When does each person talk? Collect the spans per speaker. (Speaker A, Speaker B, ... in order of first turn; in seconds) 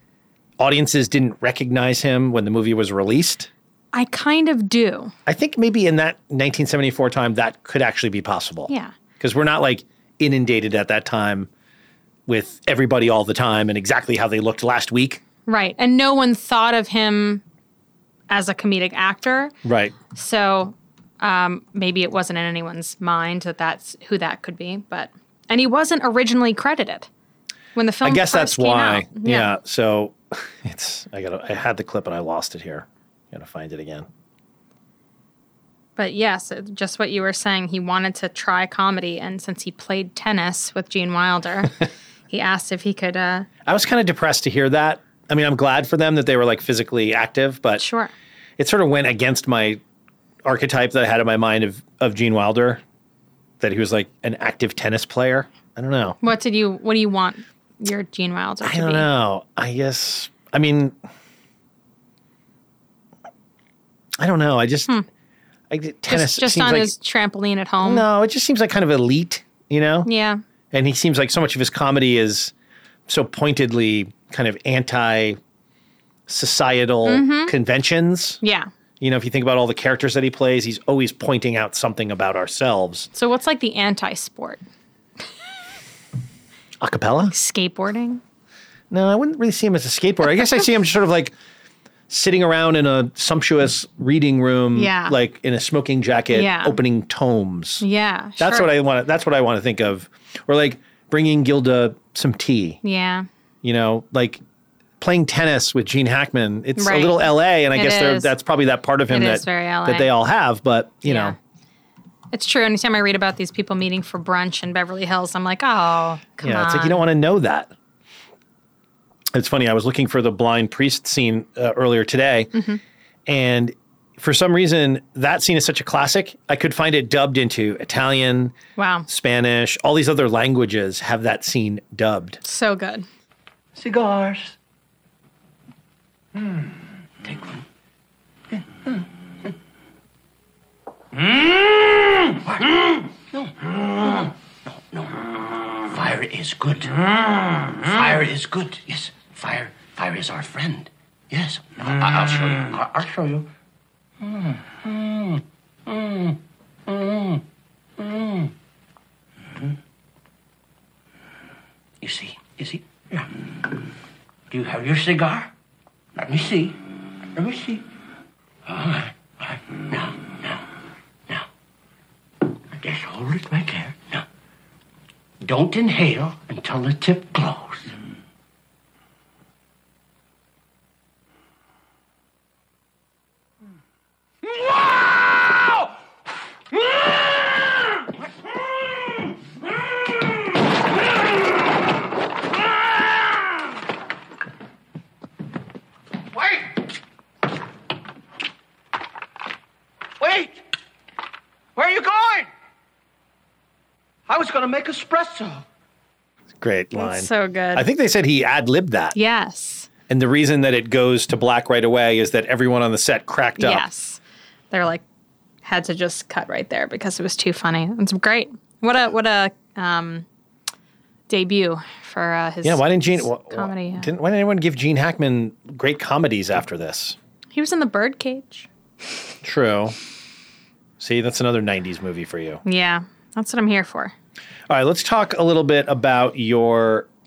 Speaker A: 0.6-3.5, 5.2-11.5, 12.3-15.2, 19.6-19.9, 28.0-34.1, 43.6-47.8, 48.6-49.8, 50.4-52.8, 53.6-56.2, 58.6-61.0, 64.2-64.9, 65.7-66.9, 67.8-70.1, 70.7-72.5, 73.1-75.4, 76.3-78.4, 79.0-83.1, 86.8-87.3, 88.9-91.3, 92.1-97.8, 98.4-102.8, 103.6-104.4, 105.0-111.3, 116.4-117.7, 119.3-122.5, 123.3-128.5, 129.1-132.4, 206.6-209.2, 210.1-213.8, 222.6-227.2, 229.4-229.9, 231.0-232.6, 234.7-237.1
Speaker B: 3.9-5.1, 8.7-8.9, 15.4-17.4, 18.3-19.5, 20.1-27.1, 27.7-29.5, 36.0-41.7, 42.3-43.5, 47.8-48.1, 56.2-59.1, 66.1-68.0, 70.0-70.4, 77.0-77.5, 78.4-78.7, 83.1-84.6, 87.3-88.2, 94.7-95.1, 96.3-96.8, 97.8-98.7, 102.8-103.2, 106.8-108.3, 109.1-110.1, 111.0-111.3, 112.3-117.0, 122.5-122.8, 128.8-129.1, 132.4-133.1, 206.9-207.8, 209.1-209.9, 213.6-214.2, 214.7-215.0, 215.6-220.2, 221.3-224.1, 227.5-228.7, 232.6-234.1
Speaker C: 133.8-134.5, 145.9-146.9, 147.8-153.4, 154.8-155.4, 155.9-156.3, 156.9-157.4, 162.0-163.2, 164.5-165.5, 166.2-166.7, 167.4-167.8, 168.7-170.6, 172.8-174.2, 175.4-177.9, 201.9-202.2, 204.3-205.5